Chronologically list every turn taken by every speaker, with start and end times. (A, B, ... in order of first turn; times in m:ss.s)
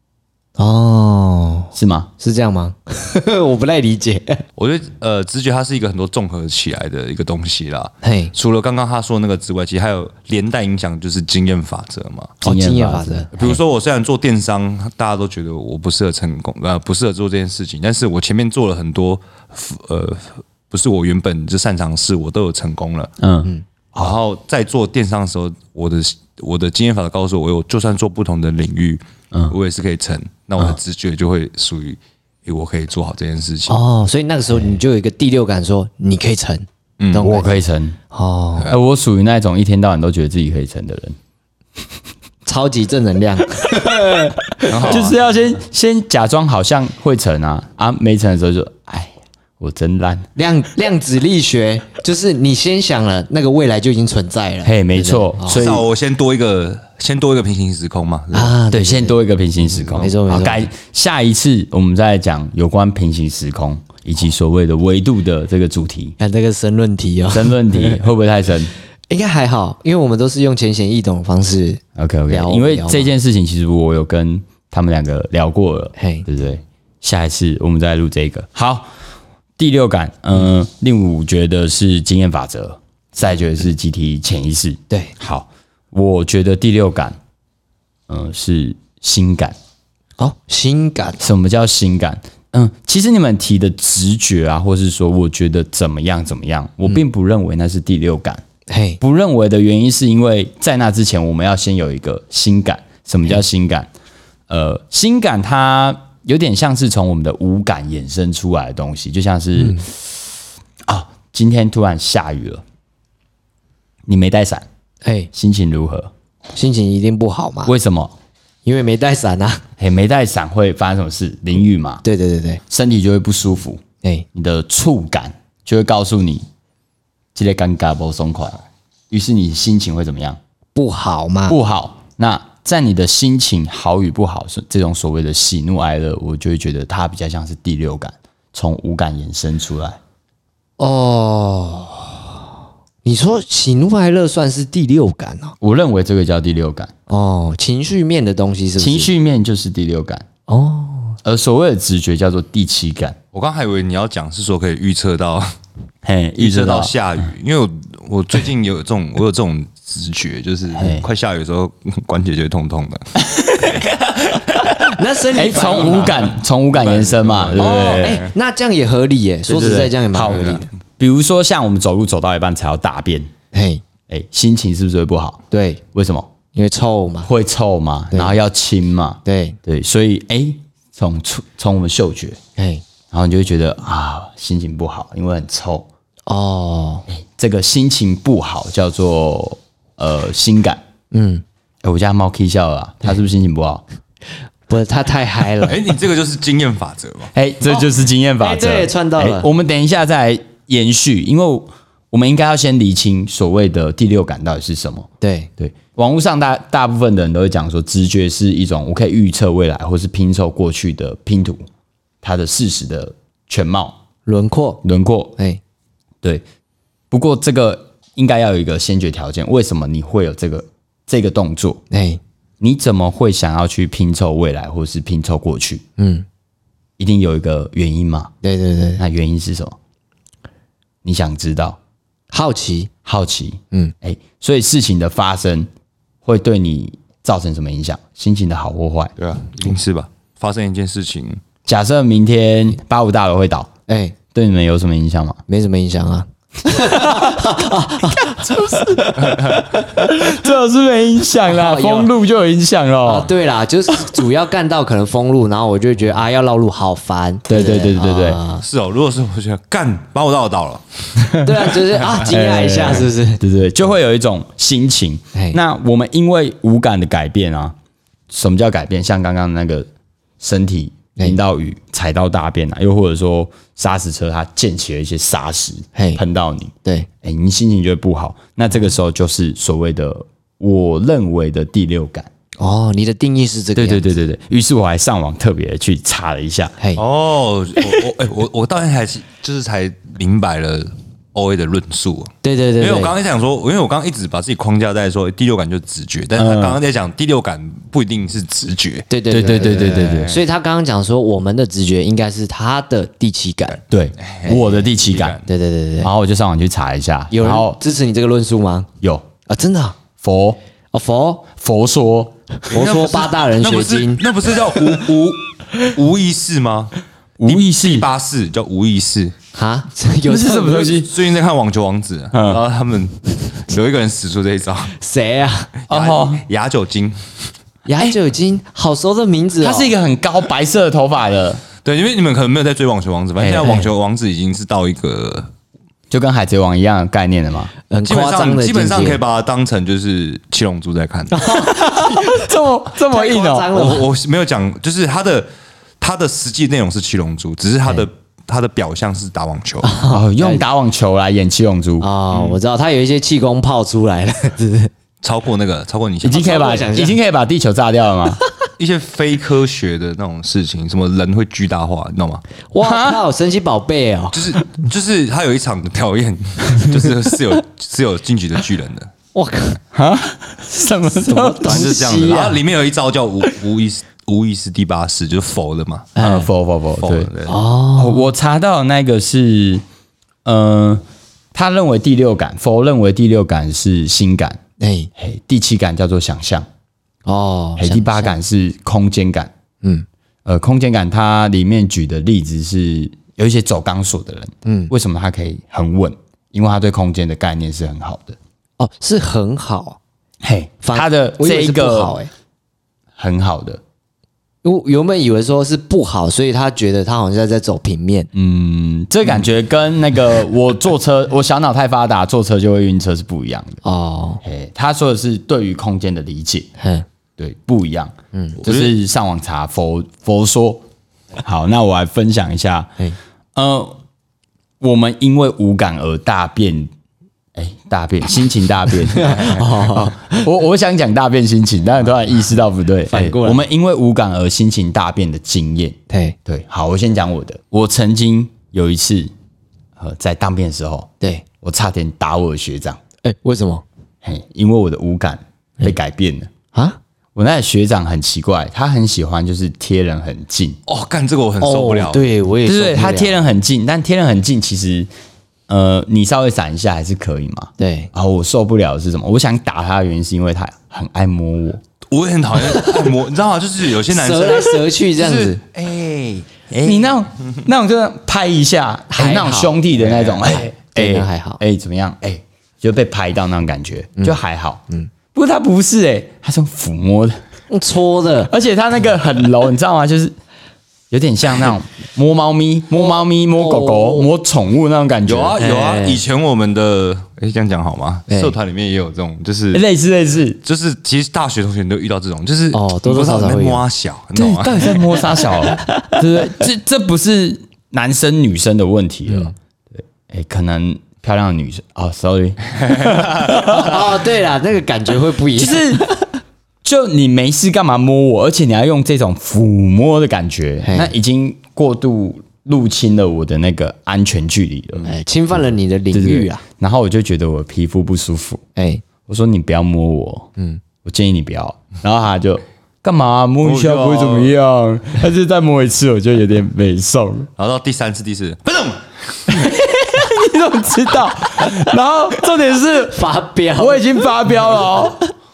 0:00.6-0:04.4 A
0:01.7-0:02.1 B
0:04.6-0:12.4 C
0:08.0-0:08.3 A
0:12.4-0:13.6 B
0:12.4-0:13.3 A
0:13.4-0:23.1 C
0:23.2-0:24.1 B
0:24.0-0:33.8 C
0:33.7-0:38.7 A
0:37.0-0:37.3 C
0:37.2-0:38.0 B
0:38.7-0:41.2 B
0:42.4-0:45.0 A
0:44.7-0:45.2 C
0:44.8-0:50.2 B
0:50.4-0:55.6 A
0:54.6-0:55.8 B
0:55.5-0:58.6 C
0:58.3-0:59.2 A
0:58.7-1:06.2 B
0:59.6-1:00.0 C
1:00.0-1:00.7 A
1:06.2-1:08.0 A
1:07.3-1:08.7 B
1:09.1-1:13.1 A
1:12.0-1:18.9 B
1:16.0-1:16.2 A
1:19.6-1:27.2 B
1:28.1-1:29.5 B
1:30.2-1:31.2 A
1:31.2-1:38.4 B
1:38.7-1:39.0 A
1:39.0-1:43.9 B
1:44.5-1:50.3 B
1:50.8-1:52.6 B
1:54.0-1:54.6 B
1:55.0-1:55.3 A
1:55.3-1:56.1 B
1:56.5-1:57.7 A
1:57.6-1:58.1 B
1:58.6-1:59.6 A
1:59.8-2:02.0 B
2:02.0-2:02.6 A
2:02.7-2:03.8 B
2:04.3-2:06.4 B
2:07.3-2:10.4 B
2:10.7-2:11.6 A
2:11.5-2:20.0 B
2:20.8-2:22.4 A
2:23.0-2:25.5 A
2:25.6-2:26.9 B
2:27.1-2:29.1 A
2:28.8-2:30.2 B
2:30.5-2:31.2 A
2:31.2-2:33.2 B
2:33.3-2:35.5 C
2:36.0-2:36.9 B
2:36.4-2:43.1 C
2:40.7-2:41.0 B
2:43.3-2:43.8 B
2:44.6-2:46.3 A
2:45.3-2:48.2 B
2:45.7-2:48.3 C
2:47.5-2:50.6 A
2:49.5-2:53.3 B
2:50.3-2:50.6 C
2:53.5-2:53.8 A
2:54.1-2:56.3 B
2:55.5-2:55.8 A
2:56.5-2:57.3 A
2:57.2-3:02.4 B
2:59.2-2:59.6 A
3:02.6-3:02.8 A
3:03.1-3:05.9 B
3:06.3-3:07.0 A
3:07.1-3:10.8 B
3:11.1-3:11.4 A
3:11.8-3:13.8 B
3:14.7-3:15.8 A
3:15.6-3:17.3 C
3:17.3-3:31.6 B
3:18.4-3:19.5 A
3:25.2-3:25.5 A
3:32.2-3:34.0 B
3:34.2-3:34.8 A
3:34.8-3:35.3 B
3:37.1-3:41.8 B
3:41.9-3:42.2 A
3:42.6-3:45.8 B
3:46.0-3:46.2 A
3:47.0-3:48.3 B
3:48.4-3:49.0 A
3:49.0-3:49.8 B
3:51.0-3:51.8 B
3:52.3-3:52.9 A
3:53.0-3:55.7 B
3:56.2-3:59.1 B
3:59.2-4:01.4 C
4:01.6-4:03.7 B
4:03.9-4:04.2 A
4:04.3-4:05.4 B
4:05.5-4:10.2 A
4:06.9-4:07.5 B
4:08.2-4:13.3 B
4:09.2-4:09.6 C
4:11.4-4:12.1 A
4:13.0-4:18.6 A
4:17.5-4:18.4 B
4:18.6-4:22.1 C
4:21.4-4:23.4 A
4:22.2-4:27.8 B
4:28.3-4:29.9 B
4:30.4-4:42.3 B
4:35.9-4:36.2 A
4:42.6-4:44.1 A
4:43.8-4:46.7 B
4:47.0-4:59.1 C
4:52.4-4:53.1 A
4:56.4-4:56.8 B
4:59.1-5:03.8 A
4:59.3-5:00.4 B
4:59.6-5:00.4 C
5:03.9-5:05.4 B
5:04.2-5:05.4 C
5:04.5-5:04.8 A
5:05.4-5:06.1 A
5:06.0-5:07.8 B
5:07.3-5:08.9 A
5:09.0-5:09.2 B
5:09.4-5:10.0 A
5:10.2-5:10.6 B
5:10.9-5:11.5 A
5:11.5-5:12.4 B
5:12.7-5:14.2 A
5:12.7-5:16.9 C
5:17.4-5:18.1 B
5:17.4-5:19.4 C
5:19.5-5:21.0 A
5:20.2-5:21.1 B
5:20.8-5:25.0 C
5:22.3-5:22.6 B
5:25.0-5:25.7 A
5:25.9-5:27.2 C
5:25.9-5:26.4 B
5:27.8-5:29.9 A
5:29.6-5:31.6 B
5:31.8-5:35.5 C
5:33.4-5:33.8 B
5:33.6-5:33.9 A
5:36.1-5:37.7 B
5:37.9-5:39.2 A
5:38.0-5:41.6 C
5:41.3-5:42.5 A
5:41.5-5:43.7 B
5:43.0-5:44.1 A
5:43.7-5:45.5 C
5:46.0-5:49.9 C
5:49.8-5:50.6 A
5:50.1-5:52.1 B
5:52.0-5:54.9 A
5:52.3-5:52.6 C
5:55.2-5:56.9 C
5:56.2-5:58.4 B
5:56.3-5:57.2 A
5:58.8-6:02.4 C
6:02.7-6:04.6 A
6:02.8-6:03.2 B
6:04.3-6:09.1 C
6:09.3-6:09.8 A
6:09.9-6:11.9 B
6:11.0-6:12.6 A
6:11.6-6:16.2 C
6:16.2-6:16.5 A
6:16.2-6:17.3 B
6:17.0-6:17.6 C
6:17.5-6:18.3 A
6:18.0-6:19.8 B
6:20.4-6:24.6 B
6:24.8-6:25.1 A
6:25.2-6:26.7 B
6:27.2-6:28.4 A
6:27.8-6:29.5 B
6:30.4-6:38.4 B
6:34.6-6:34.9 A
6:38.8-6:40.0 A
6:40.4-6:42.2 B
6:40.8-6:42.3 A
6:43.2-6:43.8 B
6:44.6-6:48.3 A
6:48.3-6:53.8 B
6:53.8-6:54.4 A
6:54.4-6:56.7 B
6:56.8-6:57.0 A
6:57.4-7:00.8 B
6:58.3-6:58.6 A
6:58.6-6:58.9 C
7:01.4-7:03.0 B
7:03.5-7:04.0 B
7:04.8-7:06.9 B
7:07.5-7:19.3 B
7:09.1-7:10.5 A
7:13.1-7:13.6 A
7:16.1-7:16.4 A
7:20.0-7:23.0 B
7:23.2-7:23.8 A
7:24.2-7:26.5 B
7:26.7-7:27.0 A
7:27.3-7:30.8 B
7:30.9-7:32.3 C
7:31.6-7:33.4 A
7:32.6-7:35.1 B
7:35.7-7:41.8 B
7:37.8-7:38.1 A
7:42.1-7:47.6 C
7:42.6-7:43.1 A
7:44.1-7:45.6 A
7:46.8-7:54.8 B
7:49.1-7:51.6 A
7:50.0-7:50.4 C
7:54.2-7:55.1 A
7:55.3-7:57.4 B
7:57.7-7:58.5 A
7:58.5-8:00.3 B
8:01.1-8:05.6 B
8:03.0-8:04.3 A
8:05.2-8:09.8 C
8:05.6-8:06.2 A
8:08.3-8:08.5 A
8:09.7-8:10.6 B
8:10.6-8:15.2 C
8:12.7-8:13.8 A
8:14.3-8:24.0 B
8:15.2-8:16.2 A
8:19.3-8:19.5 A
8:23.5-8:26.3 A
8:25.6-8:26.1 B
8:26.8-8:35.2 B
8:30.8-8:31.1 A
8:35.0-8:36.6 A
8:36.1-8:38.6 B
8:38.8-8:39.0 A
8:39.3-8:40.5 B
8:41.0-8:47.5 B
8:43.6-8:44.5 C
8:47.6-8:49.4 C
8:49.5-8:53.2 B
8:53.1-8:54.2 A
8:53.8-8:55.2 B